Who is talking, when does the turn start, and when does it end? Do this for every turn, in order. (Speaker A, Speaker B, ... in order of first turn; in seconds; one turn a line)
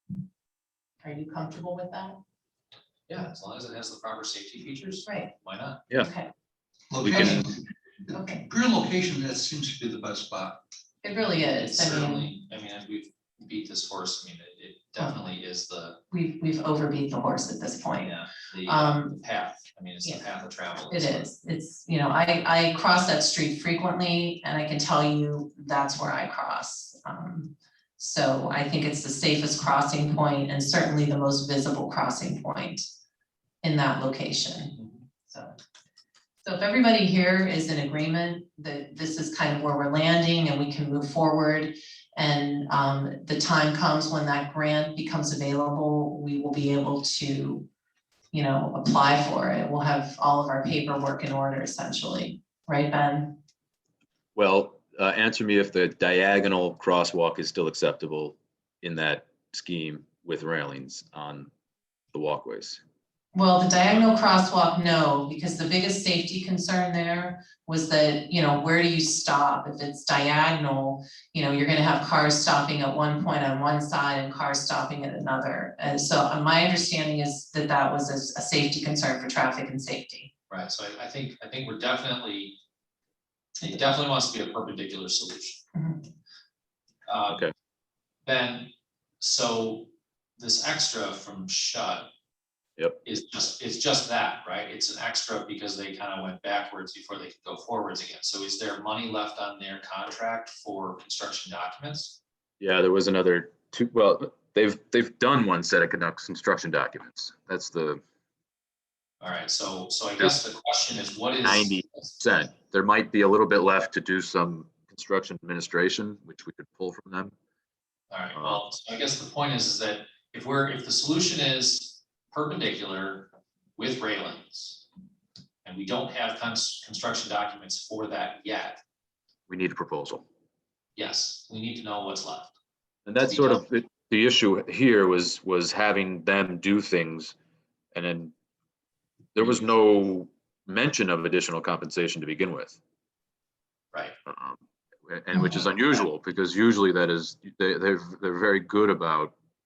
Speaker A: 1.0-2.2
Speaker B: 3.1-5.8
Speaker A: 5.1-5.3
Speaker A: 6.0-6.3
Speaker C: 6.9-7.6
Speaker D: 7.0-7.4
Speaker A: 8.1-8.4
Speaker C: 8.4-10.6
Speaker A: 11.0-12.3
Speaker B: 11.6-16.0
Speaker A: 16.1-18.1
Speaker B: 18.0-21.3
Speaker A: 18.7-19.2
Speaker A: 20.9-32.9
Speaker A: 33.6-35.5
Speaker A: 36.4-47.7
Speaker A: 48.3-53.4
Speaker D: 54.4-61.5
Speaker D: 62.1-62.8
Speaker A: 63.3-80.3
Speaker B: 80.5-82.6
Speaker B: 83.6-85.6
Speaker A: 85.8-86.0
Speaker B: 87.1-87.4
Speaker D: 87.3-87.5
Speaker B: 88.2-92.1
Speaker B: 93.0-102.2
Speaker D: 102.6-108.0
Speaker B: 109.2-112.1
Speaker D: 111.4-117.3
Speaker B: 118.1-124.8
Speaker D: 118.3-118.6
Speaker B: 125.6-128.8
Speaker D: 129.5-130.2
Speaker B: 131.0-132.6
Speaker D: 133.1-137.3
Speaker B: 133.2-133.7
Speaker D: 137.9-138.3
Speaker D: 139.3-142.8
Speaker D: 144.3-149.3
Speaker A: 145.3-145.7